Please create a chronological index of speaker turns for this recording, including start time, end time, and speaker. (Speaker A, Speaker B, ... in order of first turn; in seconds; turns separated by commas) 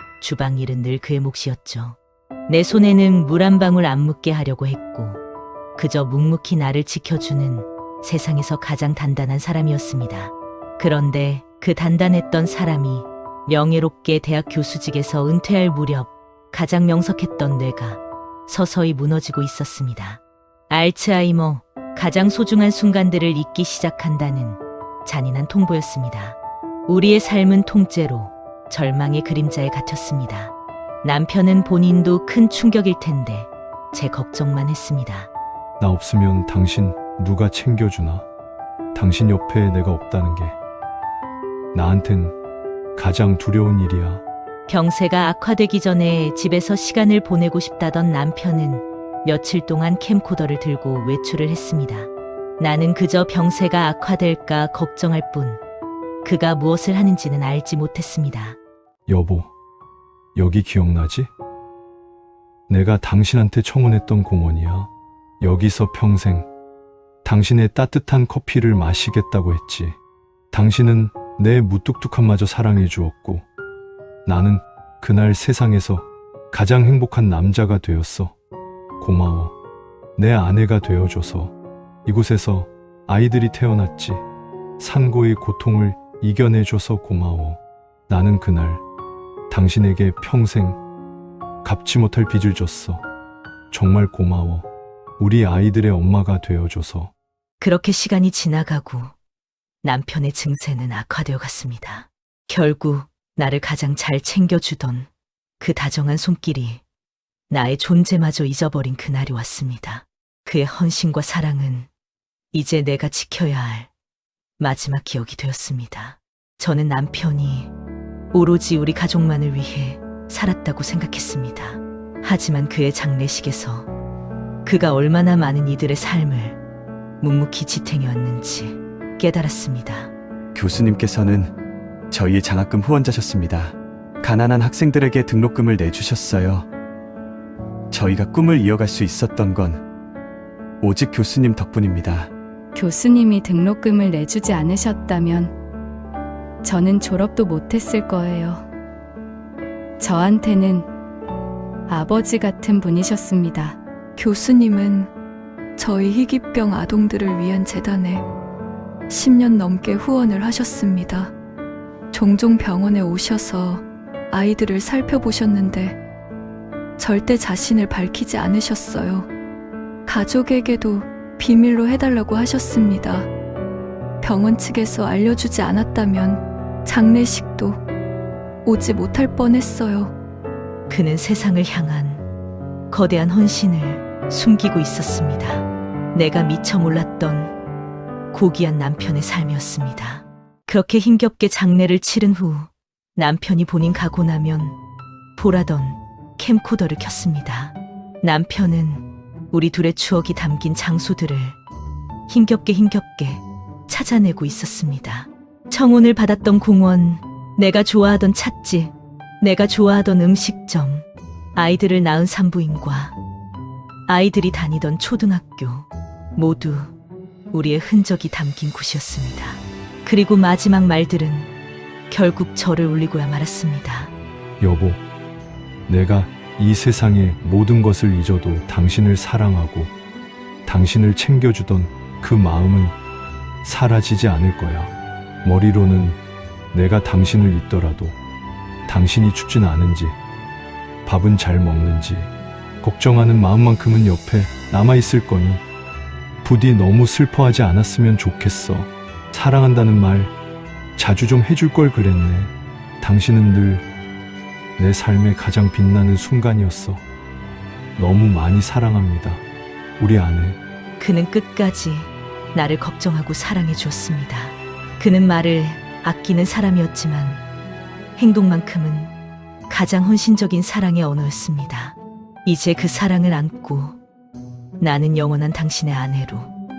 Speaker A: 0.2-5.2, Speaker A: 5.8-35.3, Speaker B: 35.8-38.2, Speaker B: 38.9-40.5, Speaker B: 41.7-42.4, Speaker B: 43.0-44.2, Speaker A: 44.7-55.6, Speaker A: 56.2-58.6, Speaker B: 59.1-59.5, Speaker B: 60.3-61.3, Speaker B: 62.7-66.5, Speaker B: 67.2-70.0, Speaker B: 70.5-73.5, Speaker B: 74.2-78.3, Speaker B: 79.0-79.5, Speaker B: 80.2-81.5, Speaker B: 82.0-84.2, Speaker B: 84.8-88.8, Speaker B: 89.5-90.8, Speaker B: 91.6-93.0, Speaker B: 93.7-94.7, Speaker B: 95.2-97.1, Speaker A: 97.6-99.1, Speaker A: 99.8-105.1, Speaker A: 105.6-106.8, Speaker A: 107.5-111.9, Speaker A: 112.5-113.9, Speaker A: 114.6-117.7, Speaker A: 118.3-123.9, Speaker A: 124.6-126.6, Speaker A: 127.2-130.1, Speaker C: 130.5-131.5, Speaker C: 132.1-136.7, Speaker C: 137.9-139.8, Speaker C: 140.8-142.3, Speaker D: 142.7-145.5, Speaker D: 146.6-148.6, Speaker D: 150.0-150.8, Speaker D: 151.9-153.8, Speaker E: 154.2-155.1, Speaker E: 155.8-158.2, Speaker E: 159.1-161.3, Speaker E: 162.1-166.0, Speaker E: 167.0-169.3, Speaker E: 170.1-173.3, Speaker E: 174.2-177.8, Speaker E: 178.6-180.1, Speaker A: 180.9-182.2, Speaker A: 182.9-187.5, Speaker A: 188.3-194.8, Speaker A: 195.3-201.6, Speaker A: 202.3-213.2, Speaker A: 214.1-216.9, Speaker A: 217.5-221.5, Speaker A: 222.1-224.1, Speaker B: 224.6-225.0, Speaker B: 225.9-229.9, Speaker B: 230.7-232.9, Speaker B: 233.6-234.9, Speaker B: 235.4-236.2, Speaker B: 236.7-238.2, Speaker B: 238.9-240.2, Speaker B: 241.1-242.3, Speaker B: 242.8-245.6, Speaker B: 246.4-250.3, Speaker B: 251.0-253.8, Speaker B: 254.8-257.0, Speaker B: 258.0-259.4, Speaker B: 260.0-260.6, Speaker A: 261.0-267.4, Speaker A: 268.2-269.1, Speaker A: 269.7-274.0, Speaker A: 274.8-276.5